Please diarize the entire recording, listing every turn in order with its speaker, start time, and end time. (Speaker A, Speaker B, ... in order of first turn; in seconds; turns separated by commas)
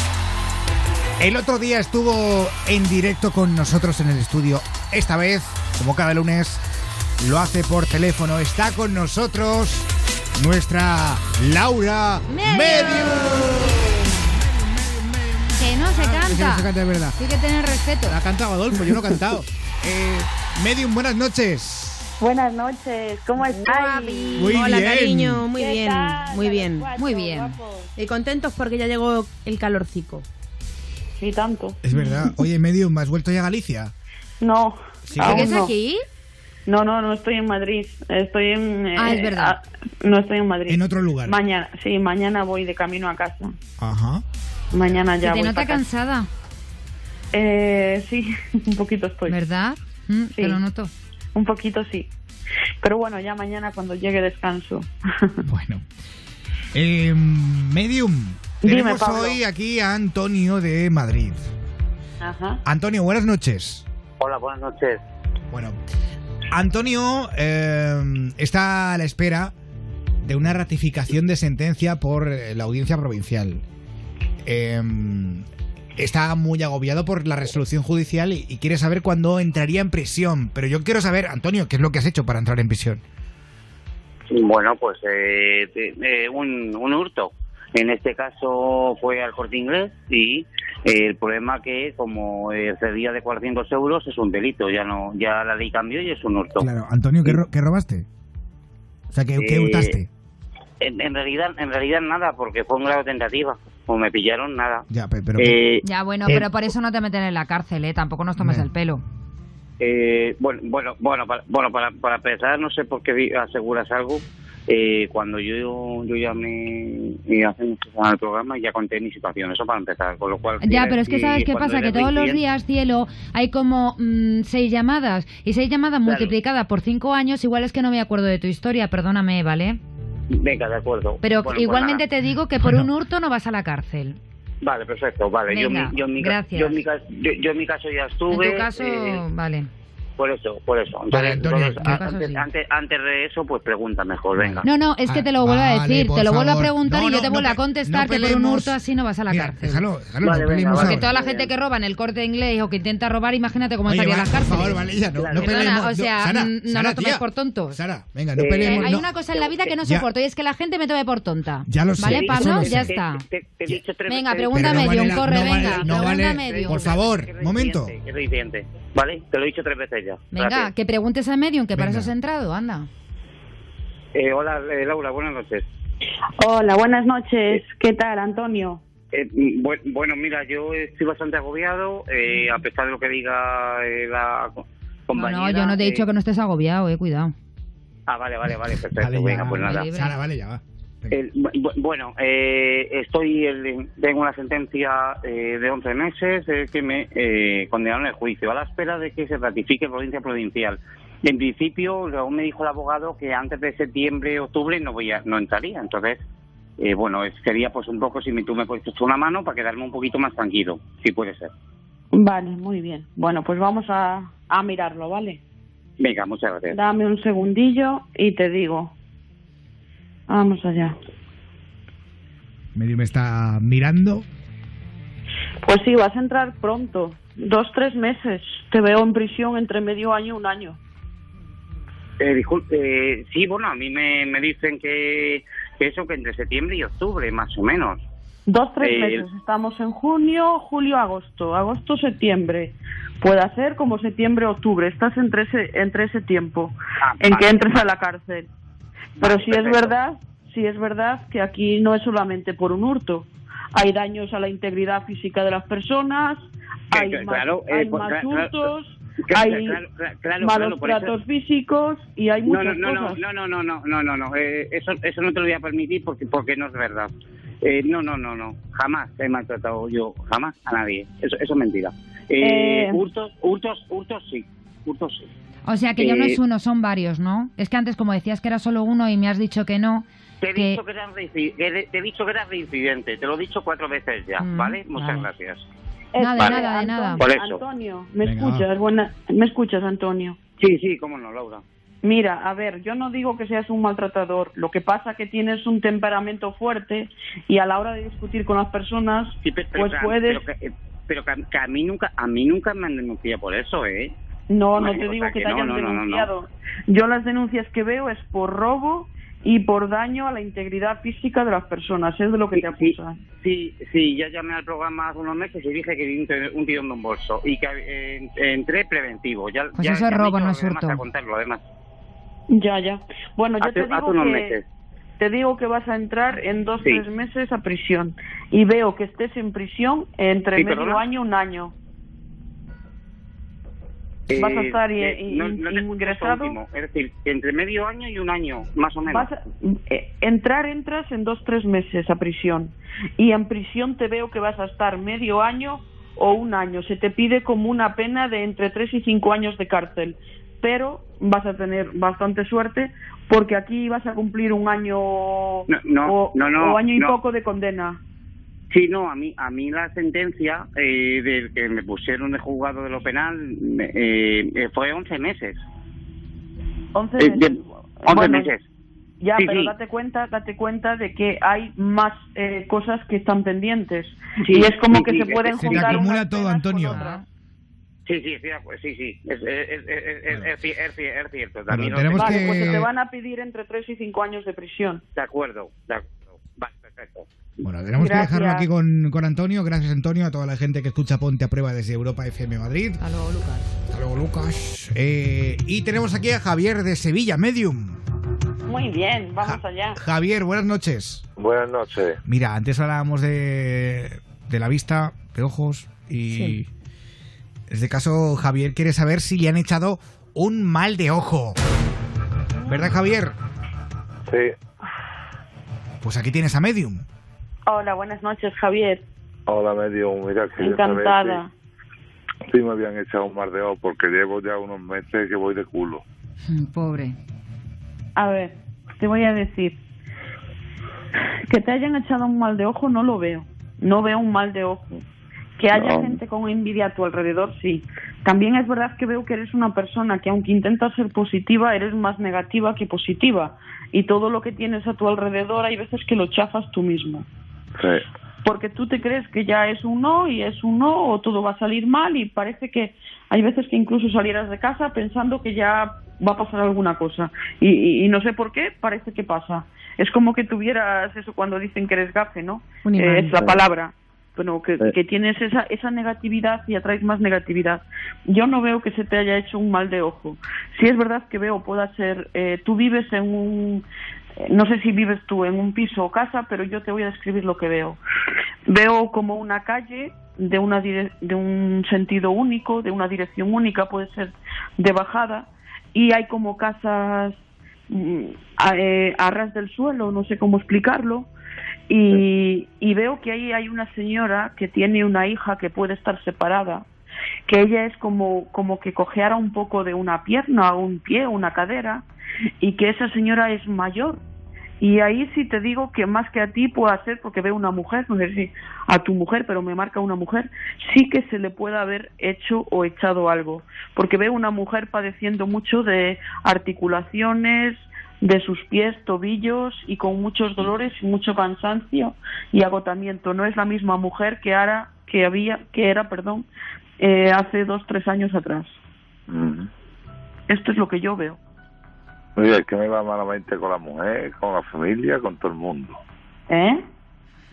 Speaker A: 1.2-6.6, Speaker A: 7.2-17.2, Speaker B: 12.3-13.3, Speaker B: 15.6-18.2, Speaker A: 18.0-22.1, Speaker C: 22.2-24.4, Speaker D: 23.4-26.9, Speaker A: 24.4-25.4, Speaker C: 25.5-27.9, Speaker B: 27.0-27.6, Speaker D: 27.9-30.2, Speaker C: 31.2-31.8, Speaker A: 31.8-33.9, Speaker C: 34.4-35.7, Speaker A: 35.1-35.5, Speaker B: 35.2-36.0, Speaker C: 36.6-43.5, Speaker B: 39.0-39.5, Speaker A: 40.7-41.4, Speaker A: 43.8-44.2, Speaker C: 44.7-45.8, Speaker B: 45.2-46.3, Speaker C: 47.3-49.4, Speaker B: 49.3-50.9, Speaker C: 50.3-50.6, Speaker C: 51.3-52.1, Speaker C: 52.8-55.4, Speaker A: 55.5-55.8, Speaker A: 56.7-61.5, Speaker C: 58.6-59.4, Speaker C: 62.2-62.6, Speaker A: 62.6-63.8, Speaker E: 64.2-65.0, Speaker A: 65.5-65.8, Speaker A: 66.5-69.5, Speaker A: 70.2-73.6, Speaker A: 74.4-83.0, Speaker E: 84.3-96.7, Speaker A: 96.6-98.0, Speaker A: 99.1-100.1, Speaker E: 99.4-100.0, Speaker E: 100.8-104.8, Speaker A: 104.9-105.5, Speaker E: 105.4-105.8, Speaker B: 105.8-109.0, Speaker A: 108.4-108.7, Speaker E: 109.8-122.4, Speaker B: 120.6-129.8, Speaker E: 126.0-126.3, Speaker E: 130.3-132.0, Speaker B: 131.2-134.2, Speaker E: 134.6-139.2, Speaker B: 135.5-136.8, Speaker B: 138.3-139.7, Speaker E: 140.2-144.6, Speaker A: 141.1-142.0, Speaker B: 141.8-142.4, Speaker A: 144.3-148.8, Speaker B: 144.6-149.8, Speaker A: 149.3-151.1, Speaker E: 150.2-151.5, Speaker B: 150.7-154.8, Speaker A: 153.8-159.1, Speaker E: 155.2-155.8, Speaker B: 155.3-157.8, Speaker E: 158.4-159.8, Speaker B: 158.6-163.2, Speaker A: 159.8-160.1, Speaker A: 161.7-162.9, Speaker E: 162.0-170.7, Speaker B: 164.1-167.0, Speaker A: 164.5-167.9, Speaker B: 170.3-172.9, Speaker A: 171.7-172.1, Speaker E: 174.1-175.7, Speaker C: 176.4-178.8, Speaker E: 179.1-186.1, Speaker B: 185.1-187.3, Speaker E: 188.1-189.8, Speaker A: 188.9-191.2, Speaker B: 189.4-190.2, Speaker E: 191.1-206.2, Speaker E: 206.8-211.5, Speaker C: 212.1-215.4, Speaker E: 216.0-216.8, Speaker C: 216.7-218.9, Speaker C: 220.3-220.9, Speaker A: 222.7-224.2, Speaker C: 225.6-230.8, Speaker E: 232.2-238.0, Speaker C: 238.4-248.5, Speaker E: 238.8-239.2, Speaker E: 247.0-247.4, Speaker E: 249.2-249.9, Speaker C: 249.2-256.4, Speaker C: 256.9-259.8, Speaker E: 256.9-258.7, Speaker E: 259.3-261.1, Speaker C: 260.4-263.2, Speaker E: 262.5-275.3, Speaker C: 272.4-273.0, Speaker B: 275.7-280.8, Speaker E: 276.0-276.4, Speaker E: 280.4-285.7, Speaker B: 284.4-285.3, Speaker C: 286.1-290.4, Speaker B: 286.2-287.2, Speaker E: 286.3-286.7, Speaker E: 287.2-287.6, Speaker A: 288.2-288.6, Speaker E: 290.6-291.6, Speaker C: 292.0-300.4, Speaker E: 299.4-304.1, Speaker C: 304.5-313.2, Speaker E: 304.8-306.3, Speaker E: 312.5-321.6, Speaker B: 319.8-321.0, Speaker C: 322.5-324.6, Speaker E: 323.6-324.6, Speaker C: 325.2-331.7, Speaker E: 330.6-331.1, Speaker E: 334.3-339.3, Speaker C: 334.3-336.6, Speaker C: 339.1-358.0, Speaker E: 355.7-357.1, Speaker E: 358.7-365.6, Speaker C: 366.9-368.5, Speaker E: 367.2-368.6, Speaker C: 369.2-377.2, Speaker E: 369.4-369.7, Speaker E: 374.4-376.1, Speaker A: 375.6-377.0, Speaker B: 376.9-377.2, Speaker E: 378.1-382.6, Speaker A: 381.7-382.9, Speaker C: 382.1-385.0, Speaker E: 385.1-387.3, Speaker A: 387.6-393.0, Speaker C: 388.0-388.7, Speaker B: 393.0-393.6, Speaker A: 393.9-398.0, Speaker C: 398.6-400.0, Speaker A: 399.4-401.2, Speaker F: 401.4-402.2, Speaker A: 402.2-406.7, Speaker D: 406.3-406.6, Speaker A: 407.7-411.6, Speaker A: 412.6-413.3, Speaker A: 416.0-417.0, Speaker C: 417.6-419.0, Speaker F: 419.5-421.4, Speaker C: 420.6-421.5, Speaker F: 422.5-426.0, Speaker B: 426.5-427.2, Speaker C: 428.1-429.8, Speaker C: 431.5-434.9, Speaker C: 435.6-447.2, Speaker F: 435.7-436.2, Speaker F: 447.8-448.0, Speaker C: 448.4-473.8, Speaker D: 462.8-463.4, Speaker C: 474.4-478.0, Speaker C: 478.7-487.4, Speaker C: 487.9-491.3, Speaker C: 491.9-496.9, Speaker C: 497.4-502.1, Speaker C: 502.6-504.2, Speaker C: 504.8-526.5, Speaker C: 527.0-528.7, Speaker F: 529.3-529.7, Speaker C: 530.5-531.4, Speaker F: 532.4-536.0, Speaker C: 536.5-536.8